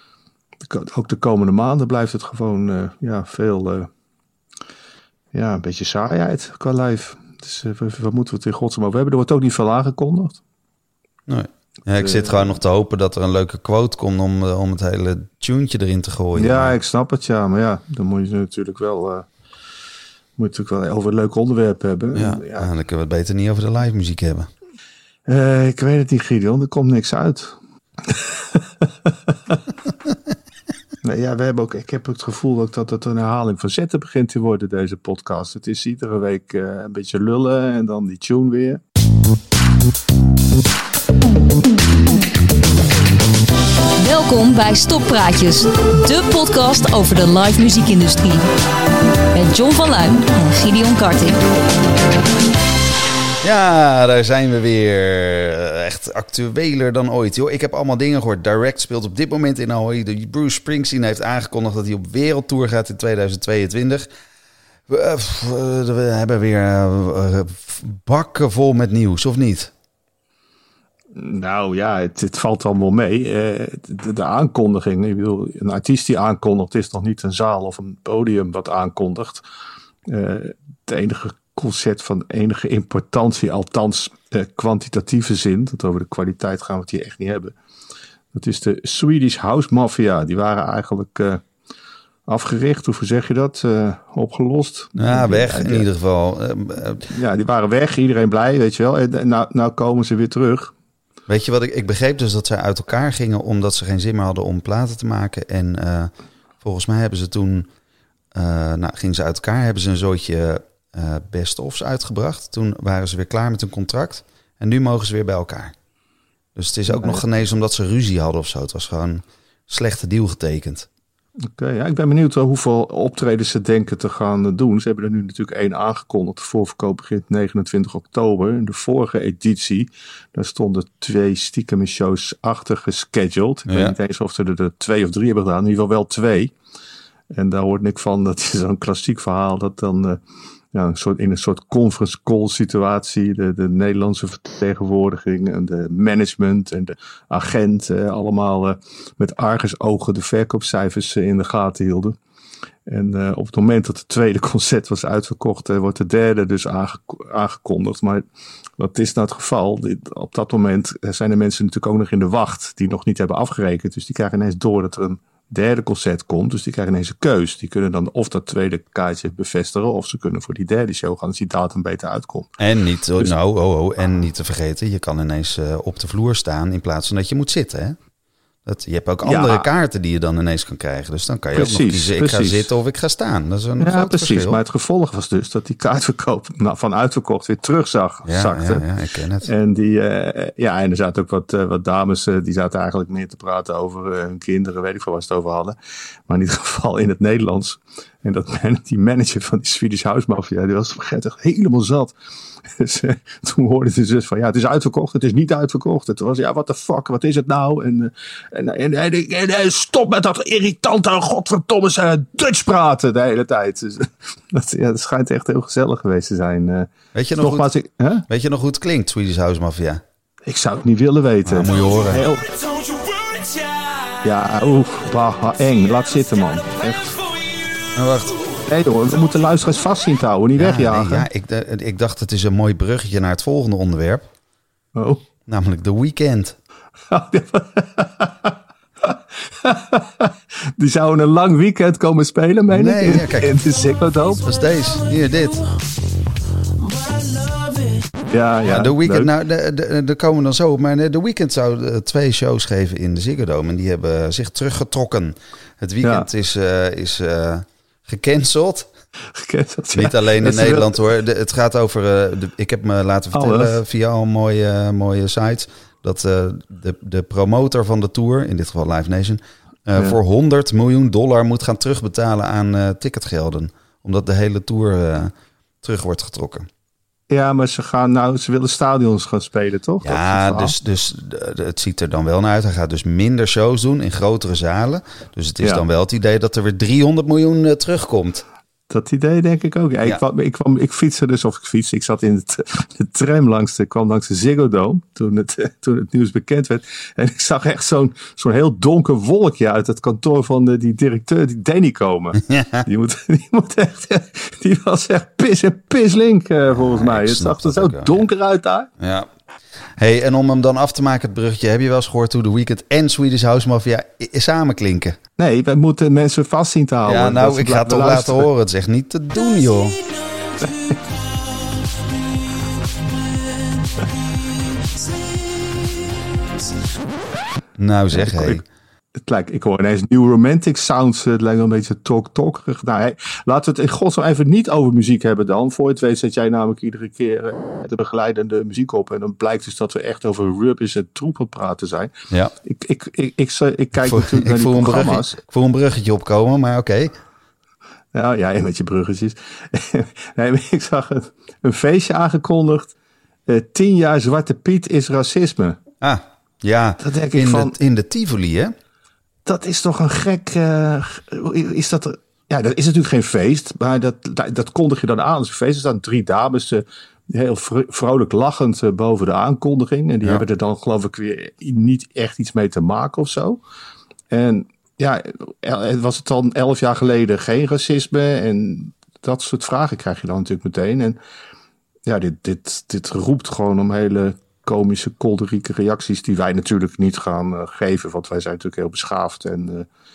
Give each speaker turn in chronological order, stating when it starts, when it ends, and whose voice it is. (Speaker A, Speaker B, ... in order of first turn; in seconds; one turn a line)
Speaker A: 0.7-3.9
Speaker A: 5.3-10.4
Speaker B: 11.3-16.7
Speaker A: 12.0-12.5
Speaker A: 16.4-19.3
Speaker A: 20.4-22.7
Speaker B: 22.1-24.5
Speaker A: 25.3-29.6
Speaker A: 31.0-38.8
Speaker C: 44.0-48.5
Speaker C: 49.3-51.4
Speaker B: 53.4-64.1
Speaker B: 64.9-69.7
Speaker A: 71.2-79.4
Speaker A: 80.1-87.5
Speaker A: 88.3-91.4
Speaker A: 92.3-95.9
Speaker B: 95.0-97.1
Speaker A: 97.1-100.7
Speaker B: 101.3-106.1
Speaker B: 106.6-107.7
Speaker B: 108.3-115.7
Speaker B: 116.6-120.9
Speaker A: 116.9-117.2
Speaker A: 121.6-136.5
Speaker B: 133.7-134.0
Speaker A: 137.3-140.2
Speaker A: 140.7-152.2
Speaker A: 152.9-158.2
Speaker A: 158.8-172.5
Speaker B: 172.6-178.0
Speaker B: 178.7-184.6
Speaker A: 179.2-179.7
Speaker A: 181.5-182.7
Speaker A: 183.8-188.9
Speaker B: 188.3-189.5
Speaker A: 189.4-195.8
Speaker A: 196.3-202.2
Speaker A: 202.8-218.3
Speaker B: 217.1-217.7
Speaker B: 218.3-220.0
Speaker A: 220.5-222.6
Speaker B: 221.4-222.3
Speaker A: 224.2-227.2
Speaker B: 227.9-228.4
Speaker A: 228.6-231.3
Speaker B: 230.6-234.3
Speaker A: 234.9-235.2
Speaker B: 235.5-236.6
Speaker A: 237.1-244.4
Speaker B: 242.7-243.6
Speaker B: 244.4-245.8
Speaker A: 248.3-249.3
Speaker B: 248.7-258.9
Speaker A: 256.0-256.3
Speaker A: 259.4-261.0
Speaker B: 259.9-276.7
Speaker A: 263.3-263.8
Speaker A: 277.3-280.8
Speaker B: 280.0-288.4
Speaker A: 288.9-308.9
Speaker B: 302.5-302.8
Speaker B: 306.7-308.2
Speaker B: 309.0-309.3
Speaker B: 310.0-315.2
Speaker A: 315.4-318.5
Speaker B: 317.1-320.0
Speaker A: 320.6-320.9
Speaker B: 327.8-328.6
Speaker A: 328.1-328.6
Speaker A: 329.2-342.1
Speaker A: 342.6-345.4
Speaker B: 344.0-347.1
Speaker A: 348.1-352.9
Speaker A: 353.5-355.8
Speaker B: 356.0-358.7
Speaker A: 357.0-357.8
Speaker A: 359.4-373.6
Speaker A: 374.3-381.2
Speaker A: 382.1-389.9